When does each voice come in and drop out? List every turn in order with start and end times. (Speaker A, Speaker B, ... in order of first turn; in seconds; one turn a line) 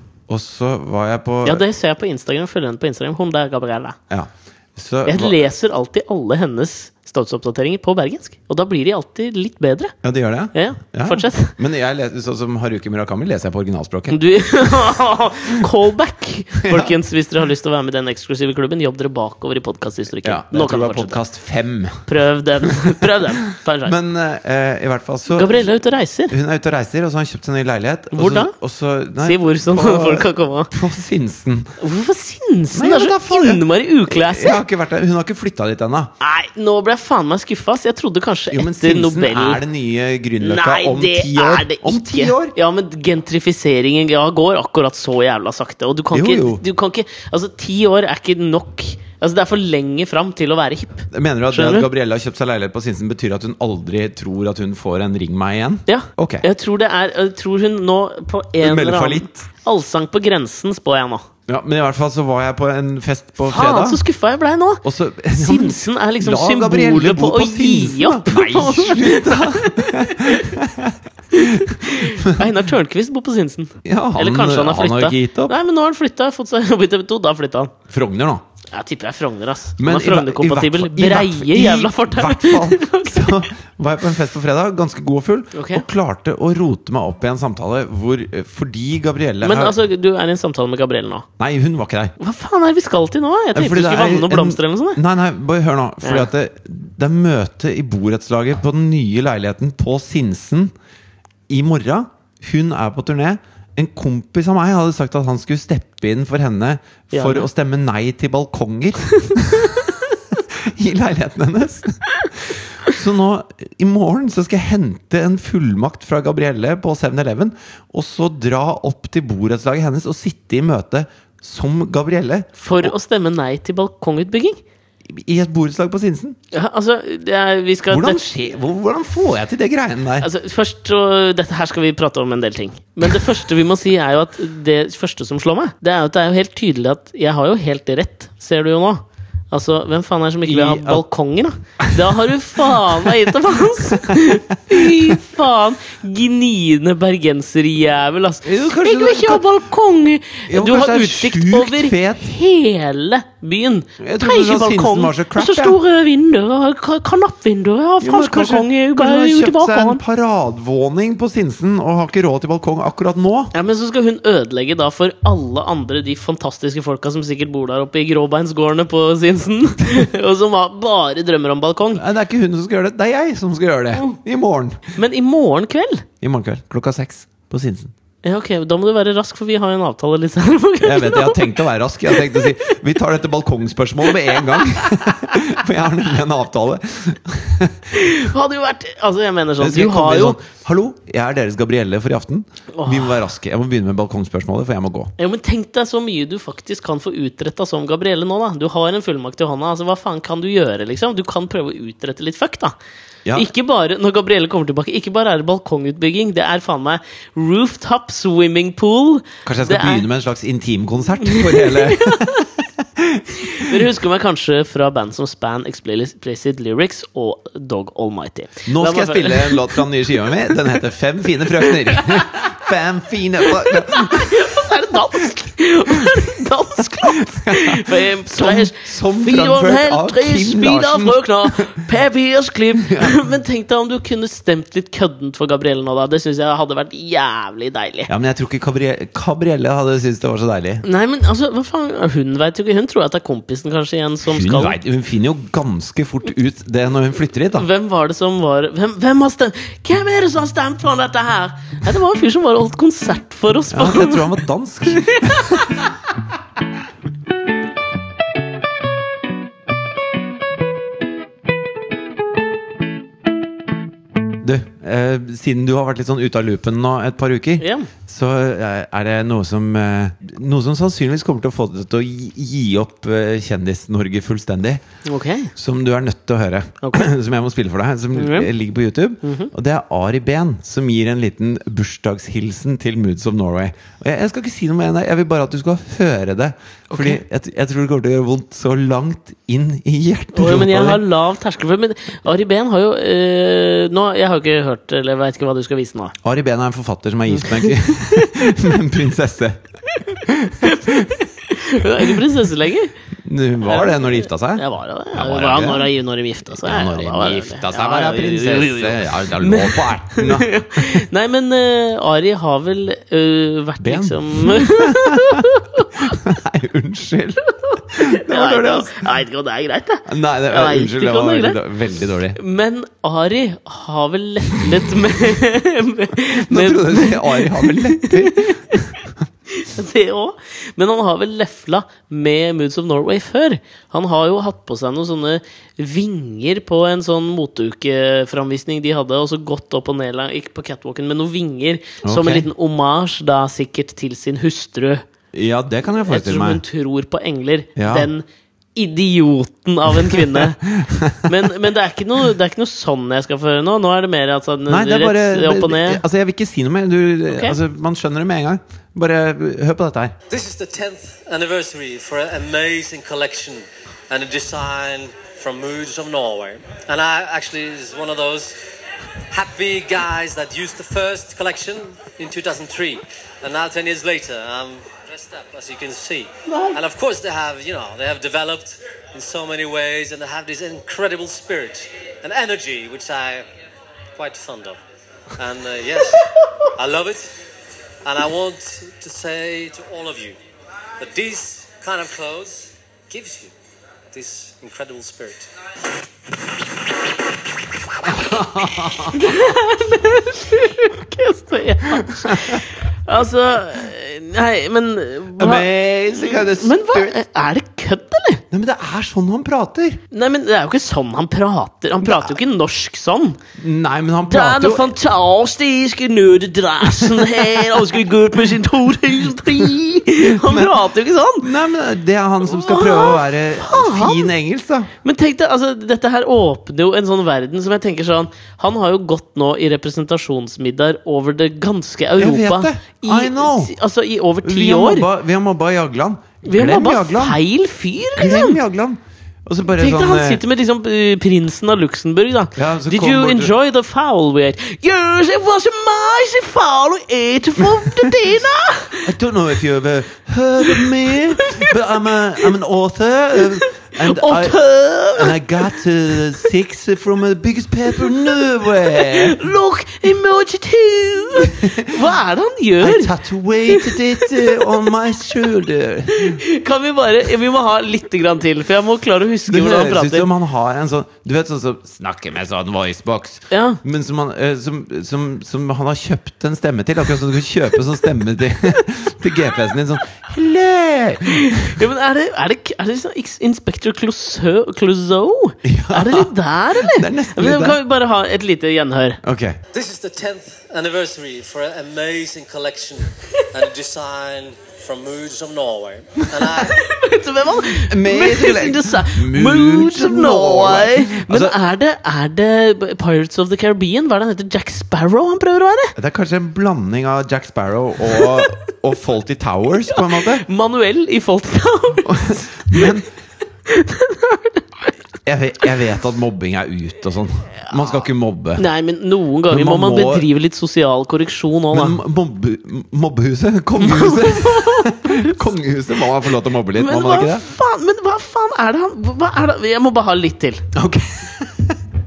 Speaker A: 0.3-1.6
Speaker B: 1.4-4.0
Speaker A: 4.1-5.4
Speaker B: 5.1-9.9
Speaker A: 10.0-14.8
Speaker B: 10.5-11.6
Speaker B: 14.1-21.2
Speaker A: 16.6-16.9
Speaker A: 20.2-22.1
Speaker B: 22.1-23.9
Speaker A: 22.6-23.1
Speaker A: 23.9-25.7
Speaker B: 25.3-26.3
Speaker A: 26.3-31.8
Speaker B: 28.1-28.5
Speaker B: 29.2-30.7
Speaker B: 31.8-34.6
Speaker A: 32.7-36.1
Speaker B: 36.2-39.6
Speaker A: 38.5-42.5
Speaker B: 40.4-51.9
Speaker A: 46.1-46.6
Speaker A: 51.1-56.5
Speaker B: 55.9-61.3
Speaker A: 58.6-59.5
Speaker A: 61.5-64.0
Speaker B: 63.5-70.5
Speaker A: 64.8-72.5
Speaker B: 71.3-77.7
Speaker A: 73.8-75.5
Speaker A: 77.9-78.4
Speaker B: 78.7-83.5
Speaker A: 79.8-89.8
Speaker B: 85.5-85.8
Speaker B: 89.4-91.3
Speaker A: 91.4-92.2
Speaker B: 92.2-95.0
Speaker A: 93.5-100.7
Speaker B: 96.0-96.3
Speaker A: 101.5-122.9
Speaker B: 107.1-107.5
Speaker B: 122.6-124.6
Speaker A: 125.1-126.4
Speaker B: 126.5-128.3
Speaker A: 127.9-130.3
Speaker B: 130.2-160.0
Speaker A: 140.4-141.0
Speaker A: 141.8-145.2
Speaker A: 148.4-149.4
Speaker A: 150.5-152.3
Speaker A: 154.0-155.8
Speaker A: 158.0-163.5
Speaker B: 163.5-172.0
Speaker A: 172.0-174.9
Speaker B: 175.0-176.1
Speaker A: 176.2-177.9
Speaker B: 178.2-182.7
Speaker A: 180.8-188.1
Speaker B: 184.1-185.3
Speaker B: 187.9-190.4
Speaker A: 189.6-195.1
Speaker B: 192.7-193.2
Speaker B: 195.2-202.8
Speaker A: 203.3-203.5
Speaker B: 203.3-210.1
Speaker A: 209.4-213.8
Speaker B: 211.3-212.4
Speaker B: 213.4-219.8
Speaker A: 218.7-224.6
Speaker B: 221.7-222.5
Speaker B: 223.5-238.1
Speaker A: 226.9-231.6
Speaker A: 232.8-233.2
Speaker A: 238.1-240.8
Speaker B: 240.8-244.8
Speaker A: 244.2-247.7
Speaker B: 247.6-254.3
Speaker A: 253.7-255.9
Speaker B: 254.9-255.7
Speaker A: 264.4-274.8
Speaker B: 267.6-267.9
Speaker B: 275.1-275.5
Speaker A: 275.6-291.0
Speaker B: 276.8-277.1
Speaker B: 278.1-278.5
Speaker B: 279.2-279.5
Speaker B: 286.9-287.2
Speaker B: 290.3-296.1
Speaker A: 296.2-301.1
Speaker B: 297.3-297.9
Speaker B: 300.6-302.9
Speaker A: 303.2-305.9
Speaker B: 303.6-316.2
Speaker A: 306.5-311.0
Speaker A: 313.8-319.1
Speaker B: 317.6-321.6
Speaker A: 320.1-322.4
Speaker B: 322.4-328.9
Speaker A: 326.3-328.9
Speaker B: 329.5-345.0
Speaker A: 342.0-342.5
Speaker A: 345.3-346.6
Speaker B: 346.1-348.2
Speaker A: 347.8-348.1
Speaker B: 348.8-356.0
Speaker A: 350.1-351.4
Speaker A: 354.7-360.1
Speaker B: 357.3-357.6
Speaker C: 360.3-368.6
Speaker C: 369.3-383.4
Speaker B: 376.5-376.8
Speaker C: 384.1-384.8
Speaker C: 385.4-387.3
Speaker C: 388.0-390.4
Speaker C: 391.0-393.5
Speaker C: 394.1-395.5
Speaker A: 398.0-399.5
Speaker B: 399.1-408.4
Speaker A: 402.2-402.6
Speaker A: 405.4-407.1
Speaker A: 408.5-410.0
Speaker B: 410.1-413.4
Speaker A: 412.0-412.3
Speaker A: 413.6-415.0
Speaker B: 414.3-421.5
Speaker A: 417.2-417.6
Speaker A: 420.2-420.9
Speaker A: 421.4-424.9
Speaker B: 422.4-424.3
Speaker B: 425.0-435.1
Speaker A: 432.2-433.7
Speaker A: 434.4-437.4
Speaker B: 436.4-438.6
Speaker A: 438.2-440.4
Speaker B: 439.8-449.1
Speaker A: 442.6-443.5
Speaker A: 447.6-448.2
Speaker A: 449.0-459.4
Speaker B: 450.7-451.7
Speaker B: 453.6-455.5
Speaker B: 458.9-463.1
Speaker A: 461.4-461.9
Speaker A: 462.8-466.4
Speaker B: 463.7-465.2
Speaker B: 466.1-470.3
Speaker A: 469.5-481.8
Speaker B: 473.5-473.8
Speaker B: 481.3-489.2
Speaker A: 485.6-487.8
Speaker A: 489.2-489.6
Speaker C: 489.7-496.8
Speaker B: 496.6-505.9
Speaker A: 497.8-501.6
Speaker A: 506.0-510.4
Speaker B: 508.1-508.5
Speaker B: 509.9-513.0
Speaker A: 512.1-513.1
Speaker B: 513.7-514.9
Speaker A: 515.2-518.6
Speaker B: 517.7-518.0
Speaker B: 518.6-522.0
Speaker A: 519.5-520.3
Speaker A: 521.7-527.5
Speaker B: 523.8-525.5
Speaker B: 526.8-530.6
Speaker A: 530.7-531.8